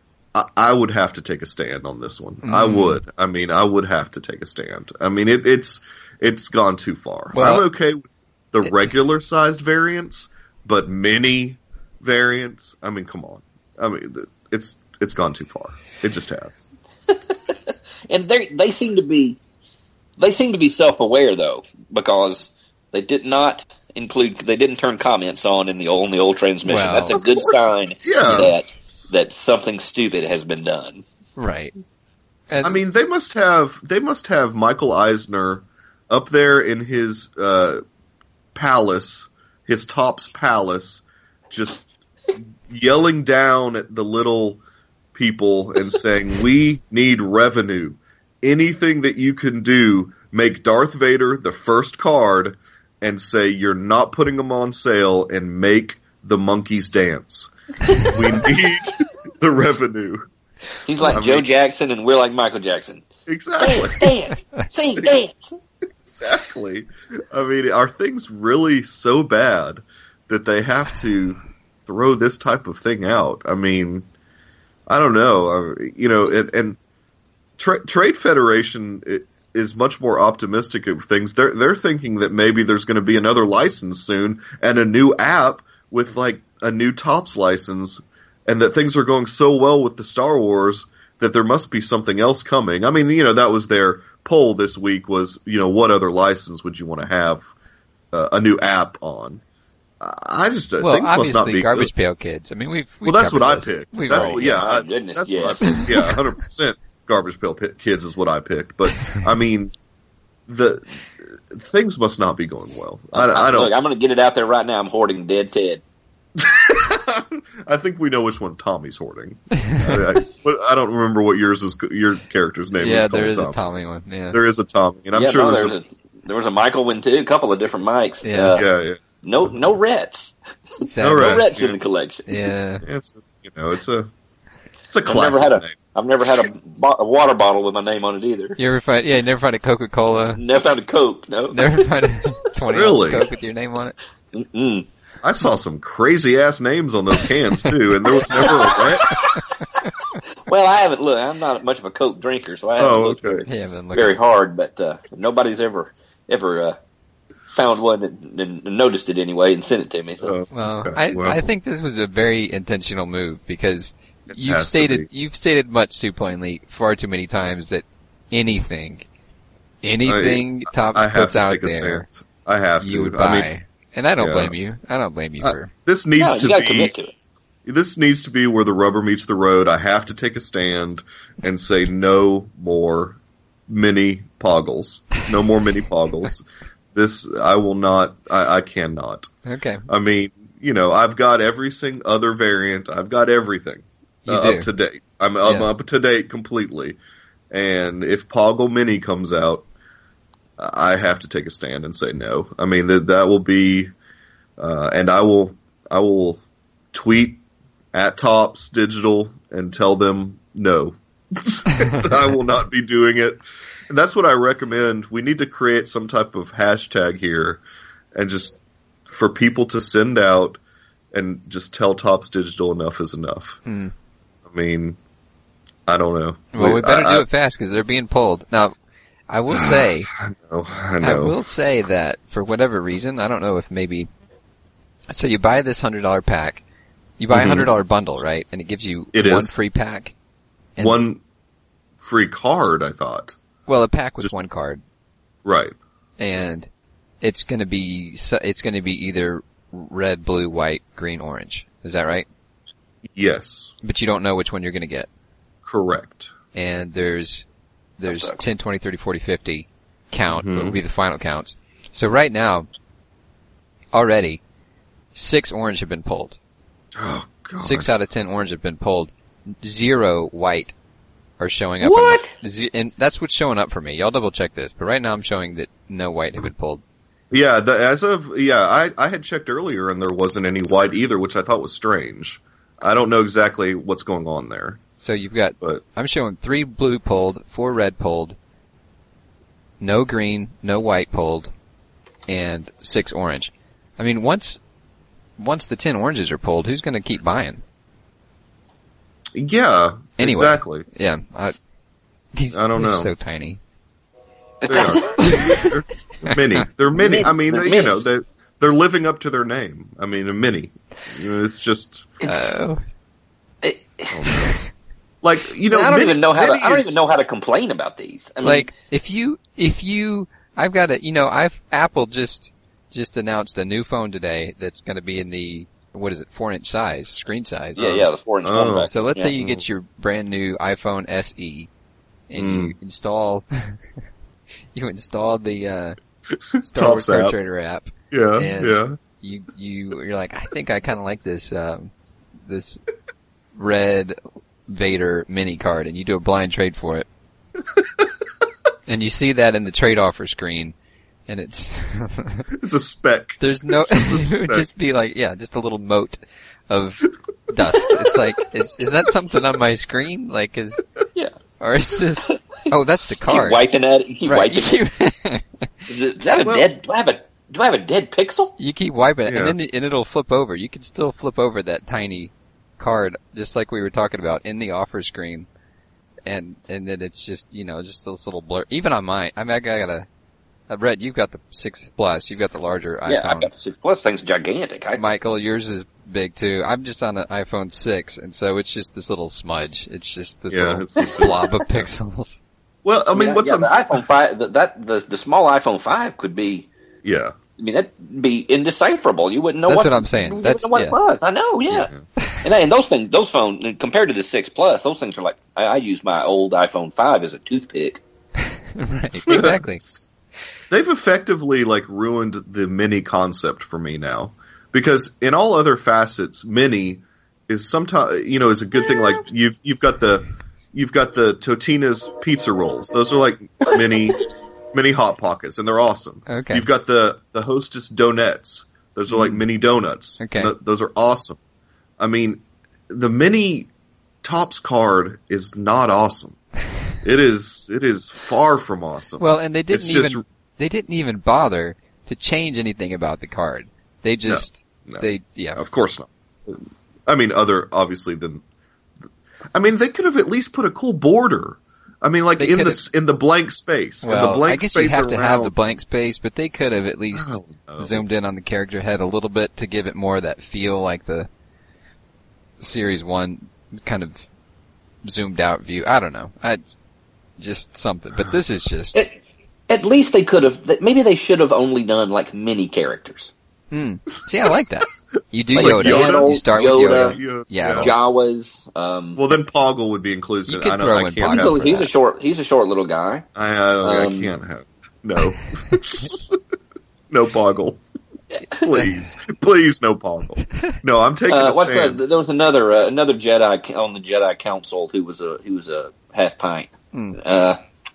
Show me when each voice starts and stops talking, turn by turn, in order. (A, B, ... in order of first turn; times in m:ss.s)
0:00.3-0:16.6 A
0:02.4-0:03.0 B
0:07.3-0:07.7 B
0:17.1-0:19.4 C
0:20.2-0:31.0 C
0:26.6-0:27.2 B
0:27.1-0:29.1 A
0:28.2-0:28.5 B
0:31.4-0:31.7 B
0:32.5-0:32.8 B
0:32.6-0:37.8 A
0:38.6-0:41.9 A
0:42.7-0:44.6 A
0:45.1-1:00.2 A
1:00.8-1:03.1 C
1:01.1-1:01.5 A
1:03.3-1:04.1 A
1:03.6-1:05.4 C
1:06.1-1:14.1 A
1:14.9-1:16.8 A
1:17.6-1:37.4 A
1:38.1-1:39.4 A
1:40.0-1:41.9 A
1:40.8-1:44.7 B
1:43.0-1:49.7 A
1:44.1-1:45.8 C
1:45.6-1:46.2 B
1:50.5-1:53.7 A
1:53.1-1:55.8 C
1:56.4-2:03.6 A
1:59.6-2:00.0 B
2:02.8-2:04.4 B
2:04.3-2:05.8 A
2:05.1-2:08.6 C
2:08.2-2:08.6 B
2:08.6-2:09.0 A
2:09.2-2:12.3 C
2:10.8-2:11.5 B
2:11.0-2:11.8 A
2:12.3-2:12.8 B
2:12.8-2:14.1 A
2:14.9-2:15.8 A
2:15.1-2:18.6 C
2:18.6-2:20.4 B
2:20.4-2:21.6 C
2:21.5-2:24.0 B
2:22.7-2:23.3 A
2:24.3-2:24.9 C
2:25.2-2:29.1 A
2:28.4-2:36.8 C
2:32.8-2:33.4 A
2:33.5-2:34.1 B
2:37.6-2:40.3 C
2:40.2-2:41.4 A
2:40.5-2:49.1 B
2:44.3-2:45.1 A
2:49.8-2:52.1 B
2:50.0-2:53.5 A
2:52.8-2:55.7 B
2:54.2-2:54.6 A
2:55.4-2:56.9 A
2:56.2-2:57.1 C
2:57.7-3:09.3 A
3:09.4-3:09.8 B
3:09.9-3:17.0 A
3:14.3-3:14.7 B
3:15.4-3:15.7 B
3:17.5-3:19.7 A
3:20.6-3:23.9 A
3:24.6-3:26.4 A
3:26.9-3:27.4 A
3:27.9-3:37.6 A
3:31.8-3:32.0 B
3:38.1-3:40.6 A
3:41.1-3:43.6 A
3:43.6-3:43.9 B
3:44.5-3:45.0 A
3:45.9-3:47.2 A
3:46.5-3:48.8 B
3:49.3-3:50.1 B
3:49.5-3:51.3 A
3:51.0-3:54.1 B
3:55.1-3:56.6 B
3:57.2-4:00.1 B
3:57.3-3:57.7 A
3:59.1-3:59.6 A
4:00.8-4:01.2 A
4:02.0-4:03.4 A
4:03.7-4:04.8 B
4:05.4-4:05.8 A
4:06.2-4:06.7 B
4:07.2-4:12.3 B
4:13.1-4:13.7 A
4:13.8-4:15.1 B
4:15.6-4:16.3 A
4:16.5-4:17.4 B
4:18.0-4:22.7 B
4:18.1-4:18.4 C
4:20.3-4:20.8 A
4:23.9-4:24.4 B
4:25.1-4:26.4 B
4:26.9-4:27.9 A
4:27.6-4:30.8 B
4:31.4-4:36.8 B
4:31.8-4:32.3 C
4:37.3-4:44.8 A
4:45.0-4:48.4 B
4:49.8-4:51.5 B
4:52.3-4:54.6 B
4:55.4-4:57.6 B
4:59.3-5:00.8 A
5:00.2-5:01.6 B
5:02.3-5:03.6 B
5:02.5-5:03.1 A
5:04.6-5:05.6 C
5:04.7-5:12.2 A
5:05.2-5:05.7 B
5:06.9-5:08.0 C
5:12.2-5:12.5 C
5:12.3-5:12.8 B
5:13.6-5:14.3 C
5:14.1-5:14.6 A
5:15.2-5:17.0 A
5:15.7-5:18.7 C
5:18.4-5:27.8 B
5:27.8-5:29.3 C
5:27.8-5:29.6 A
5:28.9-5:31.7 B
5:32.3-5:33.8 B
5:32.4-5:32.8 A
5:34.7-5:36.0 B
5:36.3-5:37.3 A
5:36.6-5:41.9 B
5:38.1-5:39.0 A
5:42.4-5:42.8 B
5:43.6-5:47.1 B
5:47.8-5:48.0 A
5:48.9-5:50.8 B
5:51.3-5:52.5 B
5:52.5-5:54.7 A
5:53.4-6:00.8 B
6:01.6-6:03.6 B
6:03.3-6:04.8 C
6:04.3-6:05.7 B
6:05.9-6:08.6 C
6:06.4-6:06.7 A
6:08.6-6:15.5 B
6:09.3-6:09.6 A
6:16.3-6:20.1 B
6:20.7-6:23.5 B
6:23.1-6:25.0 C
6:25.0-6:32.4 B
6:30.5-6:31.4 A
6:32.8-6:34.0 A
6:33.1-6:36.7 C
6:37.0-6:37.4 A
6:37.6-6:41.9 C
6:39.7-6:41.0 B
6:41.7-6:42.4 B
6:42.4-6:48.0 C
6:48.4-6:49.8 B
6:49.3-6:49.6 A
6:50.7-7:04.2 A
7:04.7-7:11.4 A
7:06.3-7:06.7 B
7:09.1-7:09.4 B
7:10.2-7:10.5 B
7:12.0-7:13.7 A
7:14.2-7:16.4 A
7:17.0-7:20.2 A
7:19.2-7:25.6 B
7:24.3-7:28.4 A
7:29.5-7:35.5 A
7:32.4-7:32.8 B
7:34.0-7:41.3 B
7:37.1-7:38.0 A
7:42.6-7:44.2 B
7:45.0-7:46.6 B
7:47.4-7:49.0 B
7:49.7-7:53.3 C
7:53.7-7:57.9 B
7:55.5-7:57.2 C
7:55.6-7:57.9 A
7:57.8-7:59.2 C
7:59.2-8:01.6 A
8:00.5-8:01.9 B
8:01.2-8:03.2 C
8:03.4-8:06.4 A
8:03.8-8:04.3 C
8:07.1-8:07.8 A
8:08.5-8:12.0 A
8:11.3-8:17.6 C
8:16.9-8:17.2 B